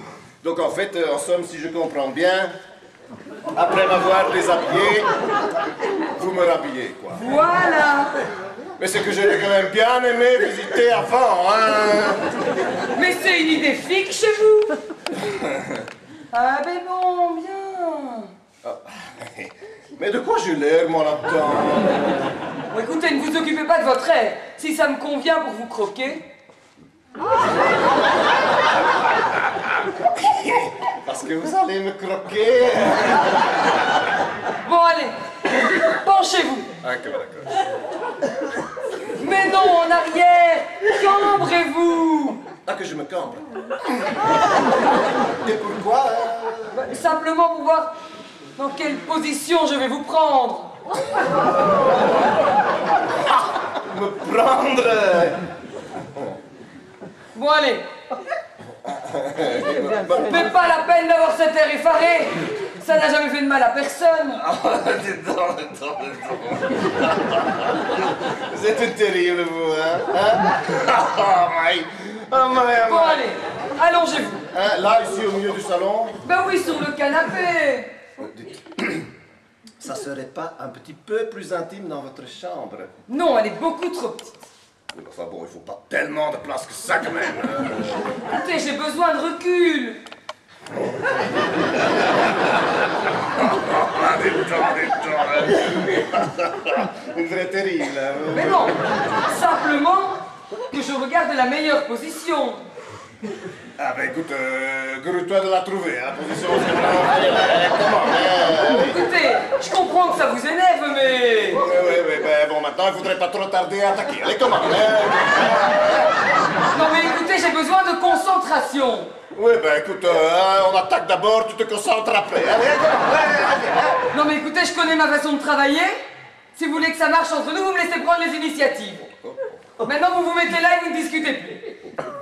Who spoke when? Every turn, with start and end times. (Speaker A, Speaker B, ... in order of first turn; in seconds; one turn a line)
Speaker A: 0.4-2.5
Speaker A: 3.5-5.1
Speaker A: 6.2-7.2
Speaker B: 7.2-8.1
Speaker A: 8.8-12.2
Speaker B: 12.9-14.8
Speaker B: 16.3-18.3
Speaker A: 18.6-22.2
Speaker B: 22.7-26.2
Speaker A: 30.2-33.2
Speaker B: 34.6-35.2
Speaker B: 35.8-36.7
Speaker A: 36.8-37.5
Speaker B: 39.2-42.5
Speaker A: 42.6-43.5
Speaker A: 45.4-46.9
Speaker B: 46.7-47.9
Speaker B: 48.6-50.7
Speaker A: 53.9-55.4
Speaker B: 57.4-57.9
Speaker A: 58.9-60.4
Speaker B: 60.1-64.4
Speaker A: 64.4-67.1
Speaker A: 68.5-73.3
Speaker B: 72.8-74.5
Speaker A: 74.5-76.1
Speaker B: 76.2-77.9
Speaker A: 78.2-79.1
Speaker A: 79.8-82.9
Speaker B: 83.1-84.3
Speaker A: 84.9-88.0
Speaker B: 88.3-90.0
Speaker A: 93.4-98.7
Speaker B: 98.3-98.8
Speaker B: 99.3-102.6
Speaker A: 103.8-109.0
Speaker B: 108.7-111.6
Speaker A: 111.5-116.0
Speaker B: 116.6-119.1
Speaker A: 119.3-124.0
Speaker B: 124.1-126.0
Speaker B: 126.5-129.0
Speaker A: 129.2-129.5
Speaker B: 129.8-131.7